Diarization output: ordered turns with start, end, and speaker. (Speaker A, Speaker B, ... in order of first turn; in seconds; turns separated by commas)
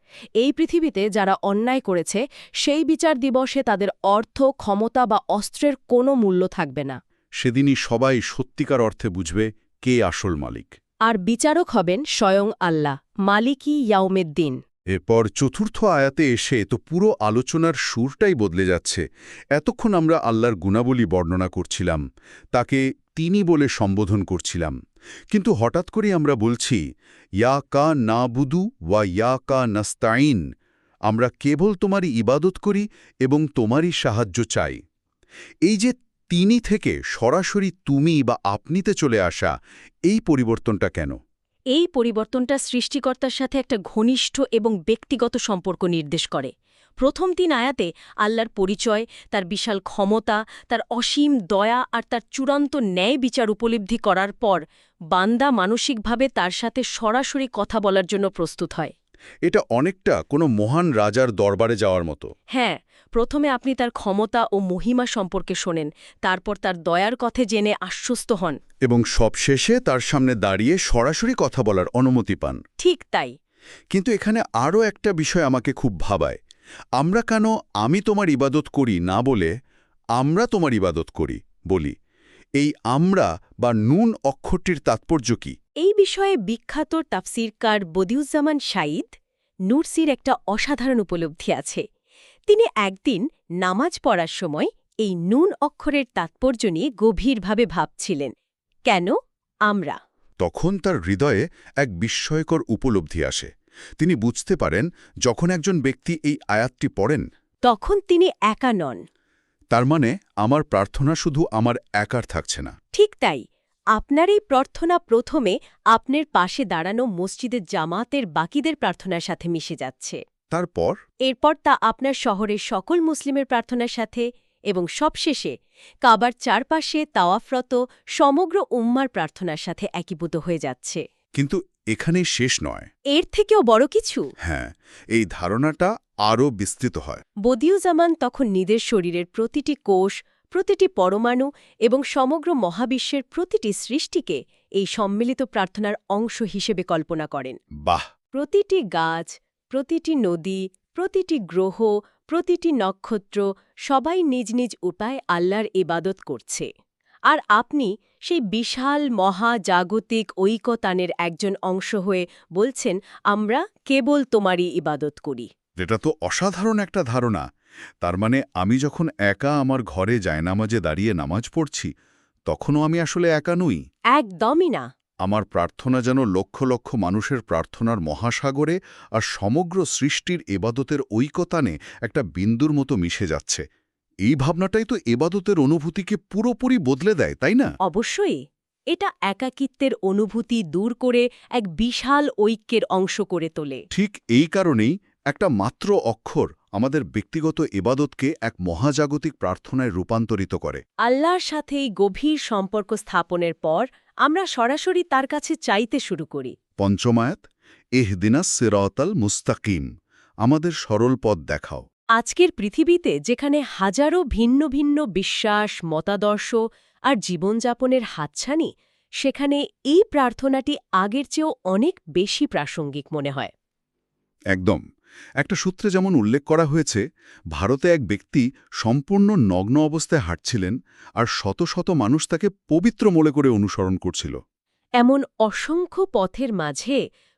Speaker A: 0.4-7.0, Speaker B: 7.4-10.7, Speaker A: 11.1-14.6, Speaker B: 14.9-22.0, Speaker B: 22.5-24.8, Speaker B: 25.3-26.8, Speaker B: 27.4-30.4, Speaker B: 31.1-34.8, Speaker B: 35.7-39.5, Speaker B: 40.1-41.1, Speaker A: 41.7-58.9, Speaker B: 59.5-62.3, Speaker A: 62.5-68.6, Speaker B: 68.8-72.6, Speaker A: 72.8-73.3, Speaker B: 73.9-76.4, Speaker B: 77.0-79.5, Speaker B: 80.2-81.9, Speaker B: 82.6-85.5, Speaker A: 85.8-89.2, Speaker A: 89.7-91.8, Speaker A: 92.5-98.3, Speaker A: 98.9-99.1, Speaker A: 99.7-100.0, Speaker B: 100.4-107.3, Speaker A: 107.7-109.0, Speaker B: 109.7-112.7, Speaker A: 112.9-113.4, Speaker A: 113.9-120.2, Speaker B: 120.5-121.0, Speaker A: 121.3-125.5, Speaker A: 126.0-131.0, Speaker B: 131.4-132.9, Speaker A: 133.1-134.3, Speaker B: 134.4-137.2, Speaker A: 137.4-147.6, Speaker A: 148.3-156.7, Speaker A: 157.3-165.5, Speaker B: 165.8-167.4, Speaker B: 168.0-171.9, Speaker B: 172.5-173.8, Speaker A: 174.1-174.8, Speaker B: 175.2-183.6, Speaker B: 184.2-187.7, Speaker A: 187.8-188.4, Speaker A: 188.9-193.8, Speaker B: 193.9-200.8, Speaker A: 201.0-206.5, Speaker B: 206.8-207.4, Speaker B: 208.0-209.9, Speaker B: 210.4-211.8, Speaker A: 212.2-218.7, Speaker A: 219.2-223.5, Speaker B: 224.5-224.8, Speaker B: 225.4-234.4, Speaker A: 235.0-237.0